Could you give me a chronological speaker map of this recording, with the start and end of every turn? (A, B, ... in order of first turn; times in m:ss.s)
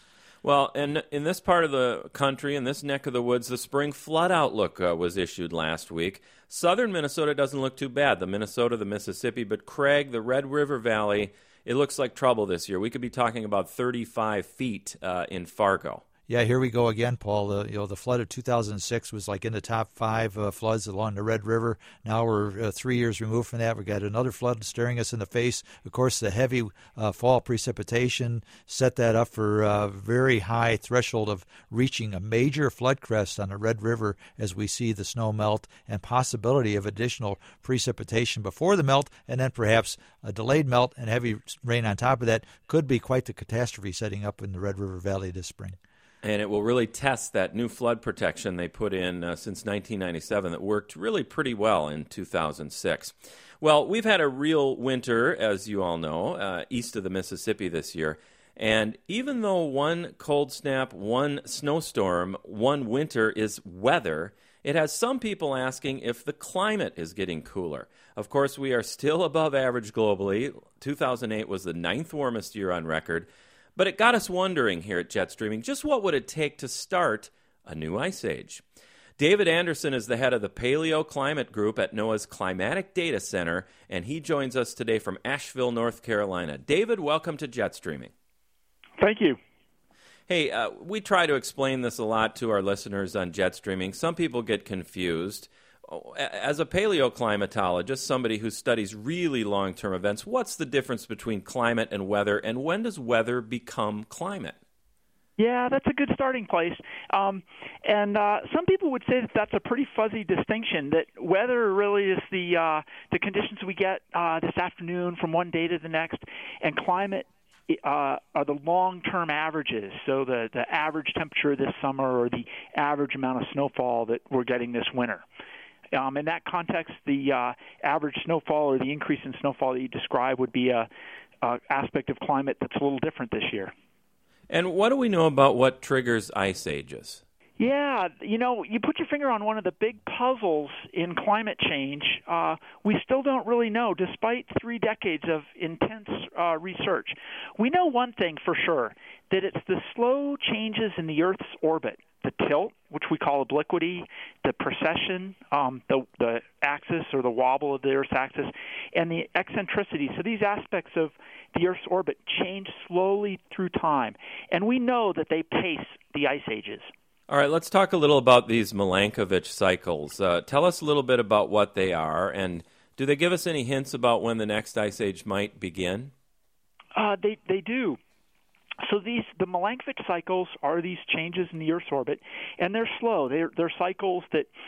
0:00.4-0:16.0 A
0:16.3-0:45.8 B
0:46.2-1:18.6 A
1:19.2-1:28.1 A
1:29.0-1:29.4 C
1:30.3-1:44.6 A
1:45.4-2:05.2 C
2:05.9-2:10.9 C
2:11.4-2:13.7 C
2:14.5-2:17.2 A
2:17.6-2:46.9 C
2:47.3-2:56.1 A
2:56.9-2:58.0 C
2:58.8-3:04.5 C